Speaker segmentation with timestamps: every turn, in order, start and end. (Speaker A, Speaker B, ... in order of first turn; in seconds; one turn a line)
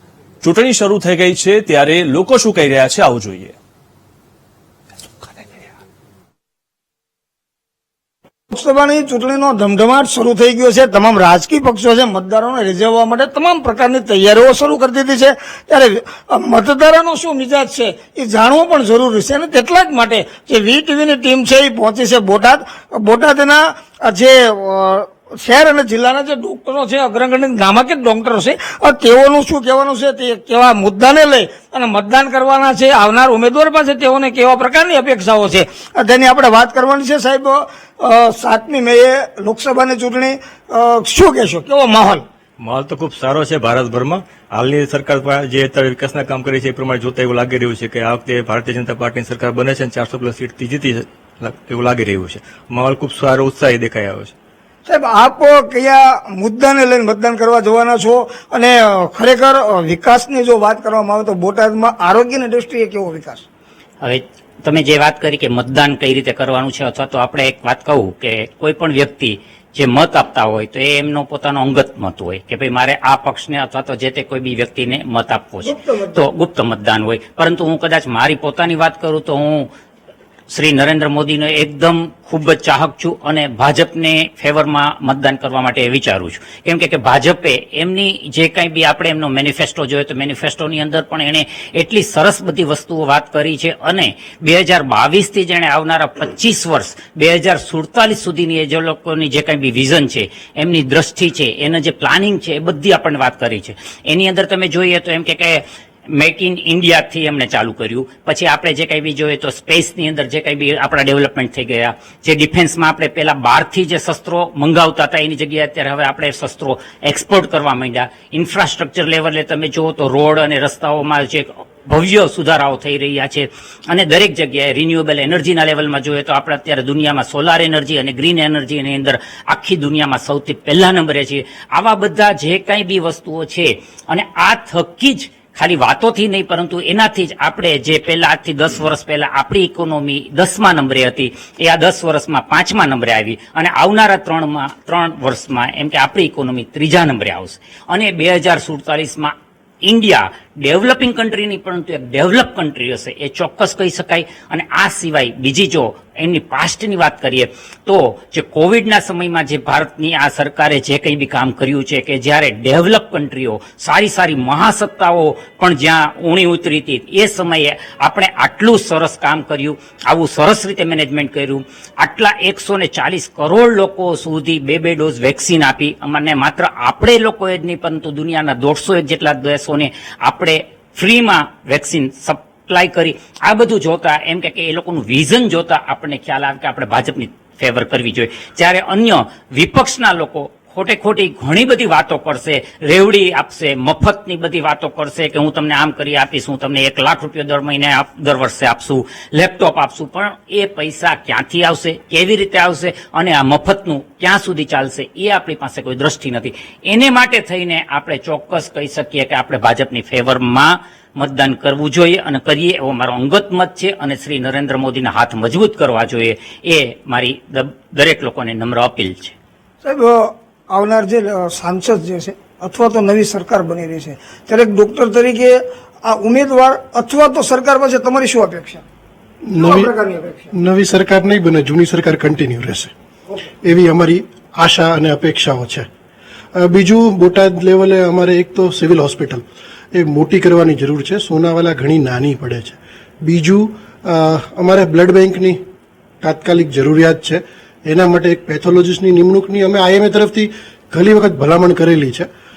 Speaker A: 0.4-3.5
Speaker B: 8.5-42.2
Speaker C: 42.7-54.3
Speaker B: 54.9-63.5
Speaker D: 64.0-79.7
Speaker B: 75.6-76.2
Speaker D: 80.5-149.3
Speaker D: 149.8-219.3
Speaker B: 219.8-228.8
Speaker E: 229.4-229.9
Speaker B: 229.6-230.5
Speaker E: 230.5-232.9
Speaker E: 233.6-235.9
Speaker E: 236.6-245.6
Speaker E: 246.2-252.3